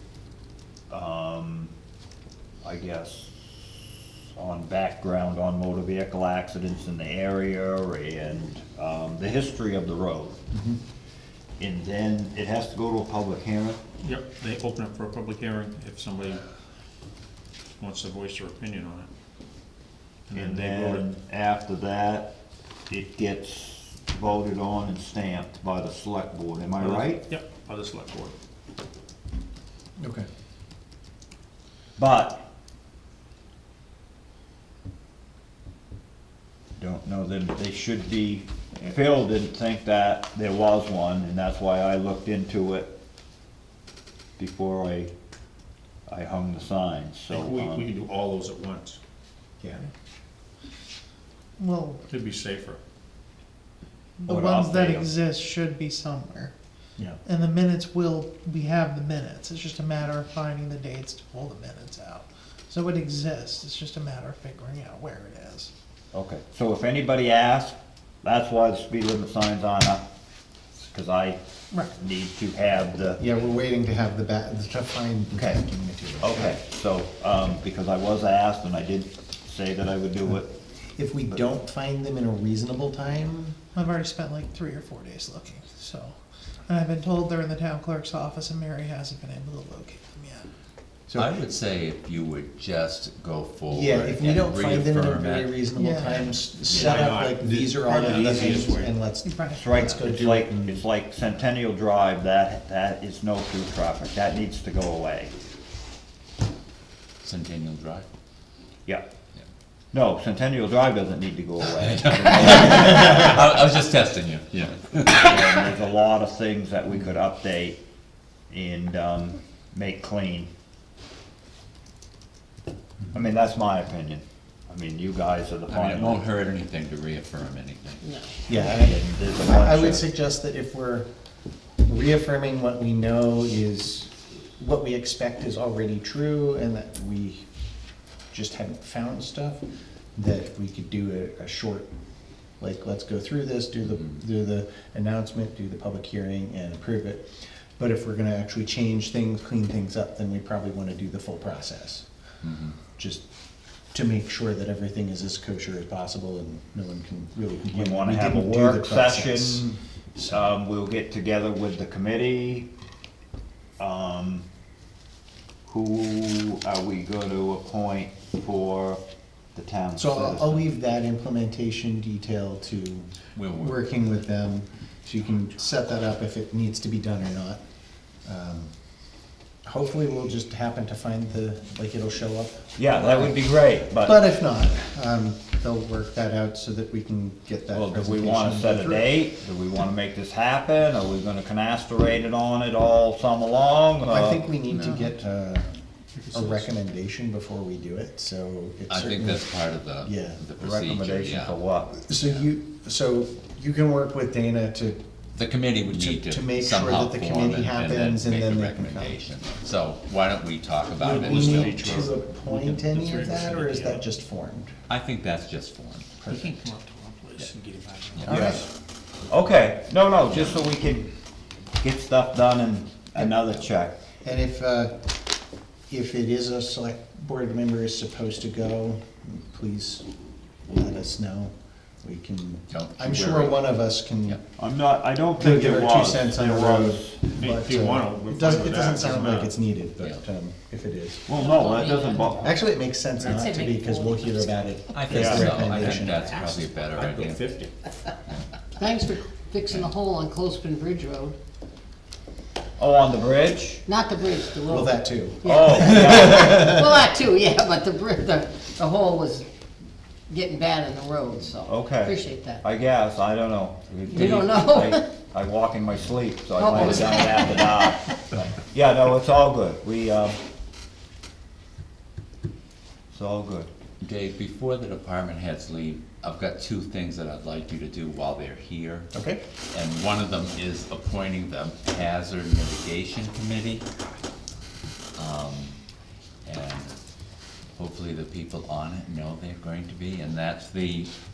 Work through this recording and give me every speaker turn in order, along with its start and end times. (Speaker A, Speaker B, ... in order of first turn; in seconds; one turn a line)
Speaker A: 0.9-1.7
Speaker A: 2.6-10.4
Speaker B: 10.5-10.8
Speaker A: 11.6-13.8
Speaker C: 14.0-16.4
Speaker C: 17.8-19.1
Speaker C: 20.3-21.1
Speaker A: 20.3-22.3
Speaker A: 22.9-27.2
Speaker C: 26.8-28.3
Speaker B: 30.0-30.2
Speaker A: 32.0-32.4
Speaker A: 36.8-42.9
Speaker A: 44.4-45.1
Speaker A: 46.1-47.9
Speaker C: 47.3-49.0
Speaker D: 51.6-52.0
Speaker C: 52.1-52.8
Speaker D: 54.2-56.5
Speaker A: 54.3-55.1
Speaker D: 57.2-65.7
Speaker A: 66.1-70.0
Speaker A: 70.8-71.4
Speaker A: 71.9-73.2
Speaker B: 73.2-76.6
Speaker A: 75.3-75.6
Speaker A: 76.2-80.5
Speaker B: 80.9-83.6
Speaker D: 83.7-86.2
Speaker D: 86.7-90.5
Speaker B: 91.1-91.3
Speaker E: 91.2-97.2
Speaker B: 93.7-100.8
Speaker D: 95.8-96.3
Speaker C: 96.7-99.0
Speaker D: 99.2-99.6
Speaker A: 99.5-105.3
Speaker E: 107.2-108.0
Speaker A: 109.9-113.7
Speaker E: 111.7-115.7
Speaker A: 115.2-117.8
Speaker A: 118.5-120.5
Speaker A: 123.1-126.2
Speaker E: 125.7-128.0
Speaker F: 128.0-128.3
Speaker B: 128.5-131.1
Speaker A: 128.5-130.1
Speaker B: 131.8-137.4
Speaker B: 138.3-139.6
Speaker B: 140.2-141.9
Speaker B: 142.6-152.0
Speaker E: 152.4-152.8
Speaker B: 153.0-153.2
Speaker B: 153.9-160.5
Speaker A: 157.7-162.7
Speaker A: 163.8-164.5
Speaker A: 165.7-169.0
Speaker A: 169.5-170.6
Speaker B: 170.0-177.6
Speaker E: 173.3-173.8
Speaker B: 178.2-178.7
Speaker B: 179.7-183.4
Speaker A: 182.8-184.2
Speaker B: 184.0-189.1
Speaker A: 187.7-194.5
Speaker B: 194.0-195.7
Speaker D: 194.7-195.1
Speaker C: 196.3-196.6
Speaker B: 196.3-199.5
Speaker E: 198.9-201.6
Speaker B: 200.0-200.4
Speaker A: 200.6-202.0
Speaker B: 202.1-205.0
Speaker E: 205.3-212.1
Speaker B: 205.8-209.2
Speaker B: 211.0-214.7
Speaker C: 211.1-214.0
Speaker E: 214.9-216.1
Speaker C: 216.2-218.6
Speaker B: 218.2-218.6
Speaker A: 218.3-218.7
Speaker A: 219.3-221.1
Speaker A: 221.8-223.9
Speaker B: 224.2-224.9
Speaker B: 225.9-230.1
Speaker B: 230.7-234.4
Speaker E: 232.7-233.6
Speaker A: 234.6-237.2
Speaker B: 235.4-241.2
Speaker C: 237.3-239.5
Speaker A: 241.2-242.5
Speaker F: 241.4-242.5
Speaker B: 242.4-246.5
Speaker F: 243.2-246.6
Speaker E: 244.9-247.5
Speaker A: 245.1-245.5
Speaker C: 246.9-247.7
Speaker F: 248.8-251.3
Speaker A: 252.8-253.8
Speaker F: 253.8-259.5
Speaker B: 254.7-256.8
Speaker A: 255.4-256.7
Speaker F: 260.3-262.6
Speaker A: 261.6-270.4
Speaker F: 264.1-265.1
Speaker F: 266.6-268.2
Speaker E: 266.7-267.1
Speaker A: 273.1-273.7
Speaker E: 274.0-279.1
Speaker B: 279.1-279.4
Speaker E: 279.7-283.8
Speaker E: 285.1-285.8
Speaker E: 286.4-287.0
Speaker E: 287.7-291.1